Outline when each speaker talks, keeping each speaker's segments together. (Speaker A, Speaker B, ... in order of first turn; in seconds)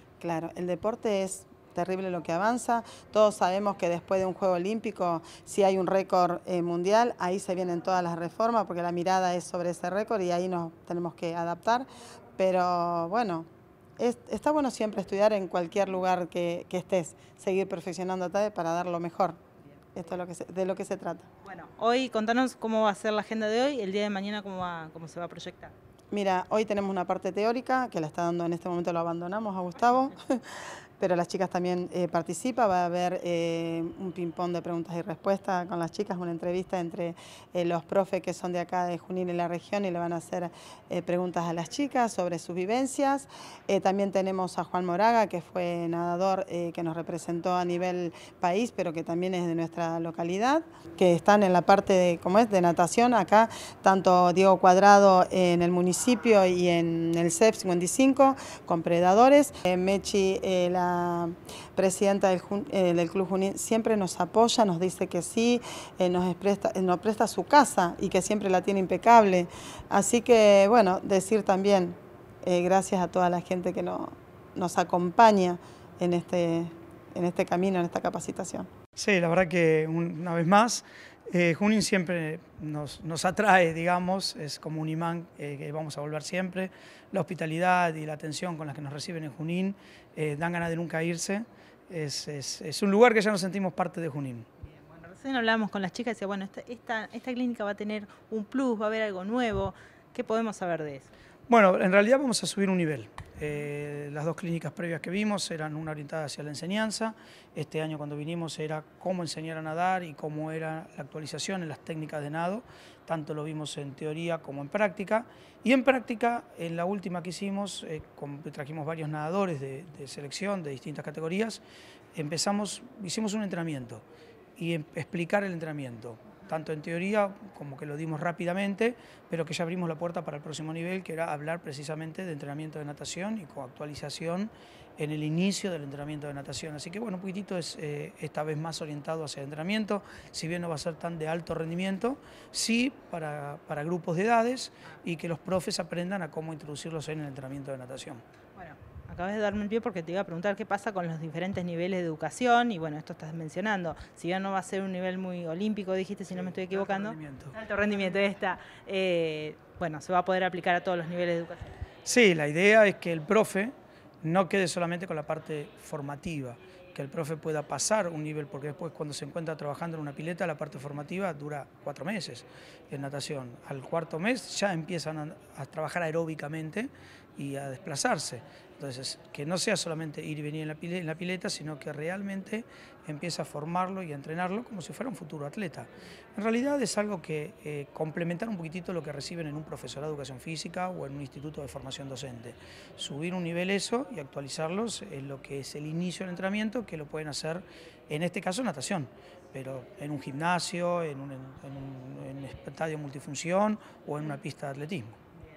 Speaker A: 0.2-13.5, 14.0-19.4, 19.9-21.3, 26.1-30.4, 31.0-78.7
Speaker B: 21.4-25.7, 94.9-101.1, 148.6-161.7
Speaker C: 79.0-94.5, 101.5-121.6, 122.1-124.0, 124.6-148.2, 156.3-157.5, 162.1-205.2